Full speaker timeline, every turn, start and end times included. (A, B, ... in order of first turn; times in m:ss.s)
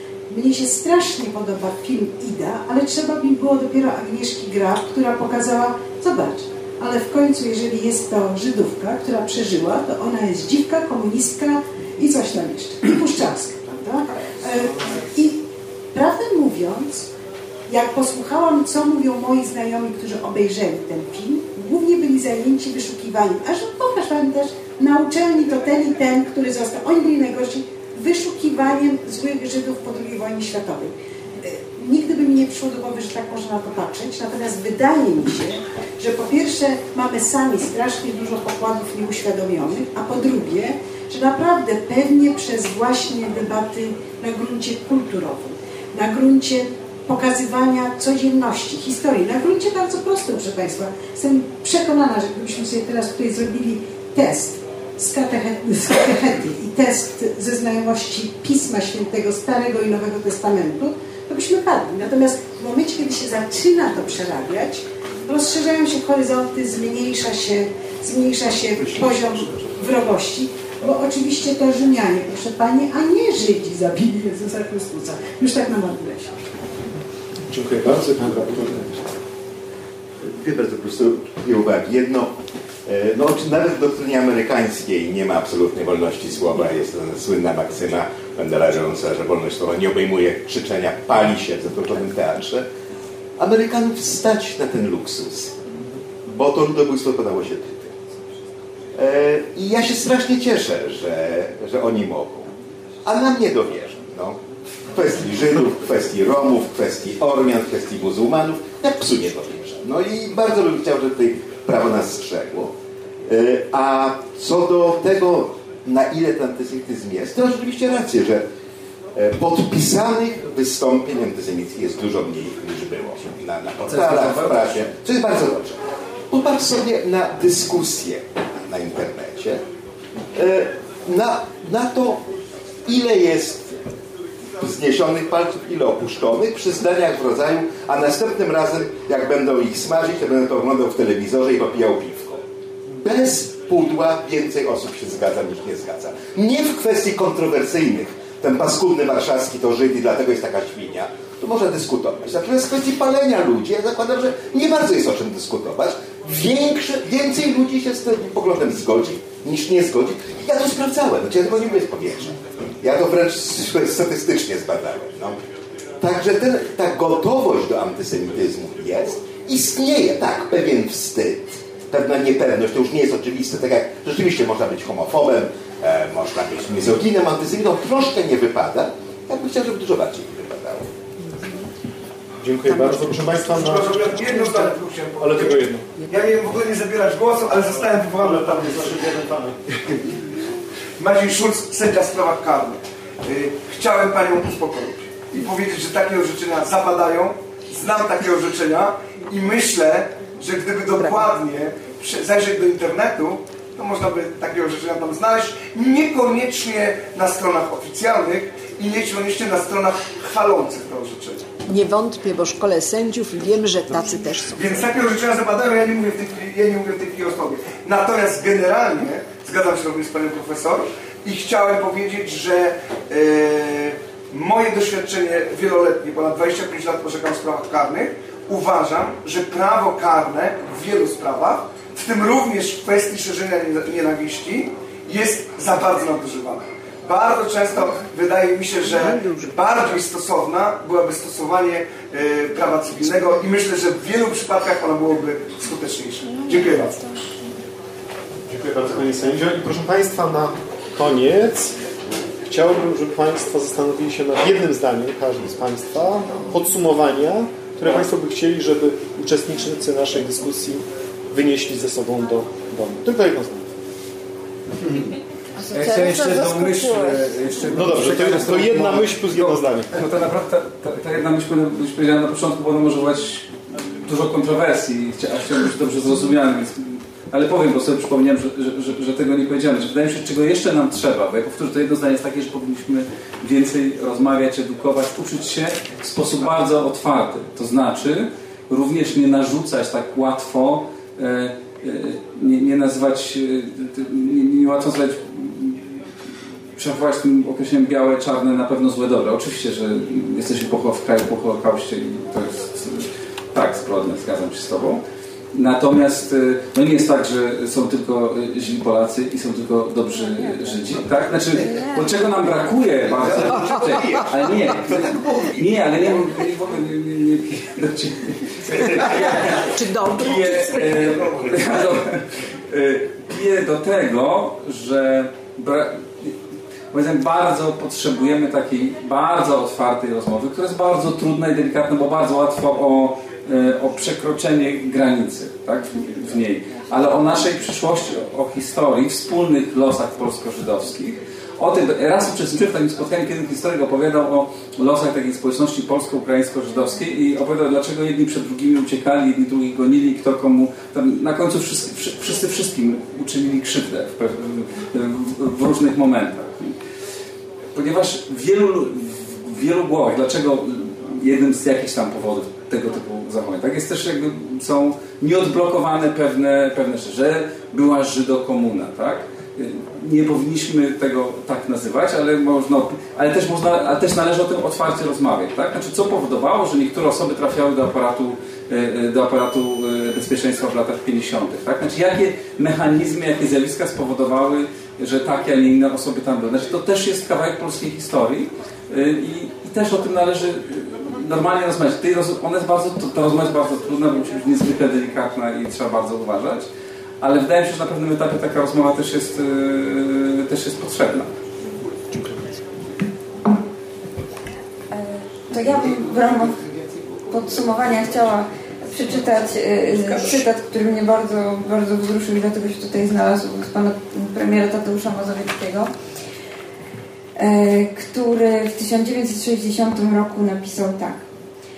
0:00.3-0:17.1 A
0:17.7-1:16.4 A
1:17.5-1:19.1 B
1:20.2-1:22.3 C
1:22.9-1:32.7 C
1:33.4-1:35.6 C
1:36.3-1:38.0 C
1:38.9-1:42.5 C
1:43.0-1:44.4 C
1:44.9-1:52.8 C
1:53.3-1:58.4 C
1:59.2-2:09.6 C
2:03.9-2:04.9 D
2:10.3-2:12.3 C
2:12.9-2:13.8 C
2:14.6-2:22.4 C
2:22.9-2:45.4 C
2:46.0-3:00.9 C
3:01.2-3:01.7 E
3:02.4-3:04.1 B
3:02.7-3:04.7 E
3:03.6-3:08.8 F
3:05.2-3:05.9 B
3:08.2-3:09.6 B
3:11.0-3:31.4 F
3:21.0-3:21.4 E
3:31.7-3:35.0 E
3:34.5-4:07.0 F
3:58.8-3:59.9 E
4:06.7-4:07.0 B
4:08.5-4:11.8 B
4:12.4-4:23.7 B
4:25.7-4:27.1 G
4:25.7-4:56.0 D
4:27.7-4:30.0 B
4:56.8-5:05.0 D
5:05.5-5:26.4 D
5:11.6-5:12.1 G
5:18.9-5:21.5 E
5:26.9-5:56.8 D
5:57.7-6:36.7 D
6:37.2-6:41.3 D
6:42.1-6:42.6 B
6:44.9-6:46.6 G
6:47.3-6:55.9 G
6:57.4-7:01.2 G